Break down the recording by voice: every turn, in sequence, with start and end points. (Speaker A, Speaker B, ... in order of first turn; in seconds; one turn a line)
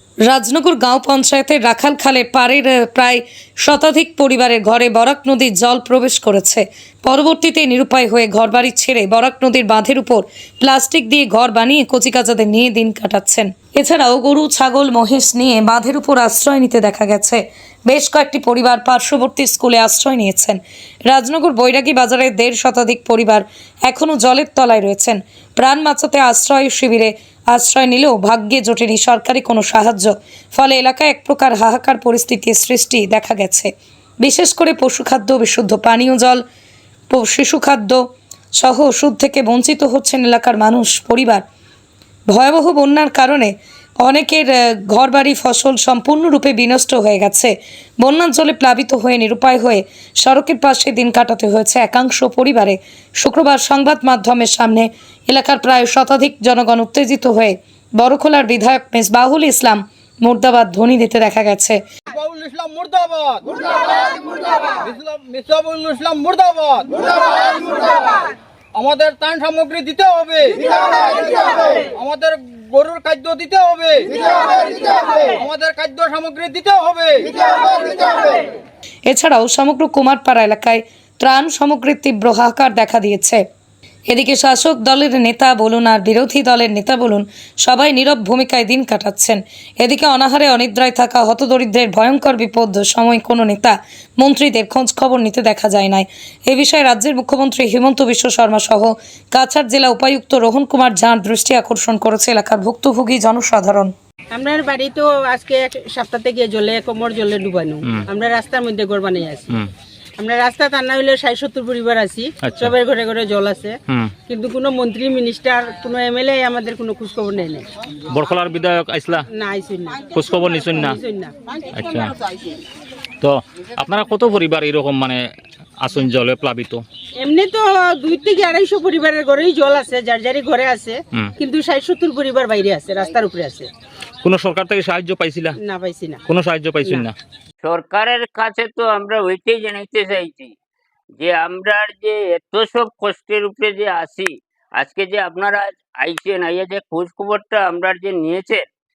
Speaker A: 0.3-33.7
Speaker A: 34.2-36.4
Speaker A: 37.1-38.0
Speaker A: 38.6-41.4
Speaker A: 42.3-61.8
Speaker B: 62.1-68.1
Speaker B: 68.7-78.0
Speaker A: 79.1-83.4
Speaker A: 84.1-103.9
Speaker C: 104.3-109.6
Speaker C: 110.2-117.7
Speaker D: 112.4-112.7
Speaker D: 113.9-114.1
Speaker D: 118.1-119.2
Speaker C: 119.3-121.3
Speaker D: 120.1-121.0
Speaker D: 121.7-122.1
Speaker D: 123.2-125.2
Speaker D: 125.8-126.8
Speaker C: 127.2-133.7
Speaker D: 134.2-135.6
Speaker C: 135.6-136.2
Speaker D: 136.3-137.1
Speaker E: 137.6-140.5
Speaker E: 141.2-148.6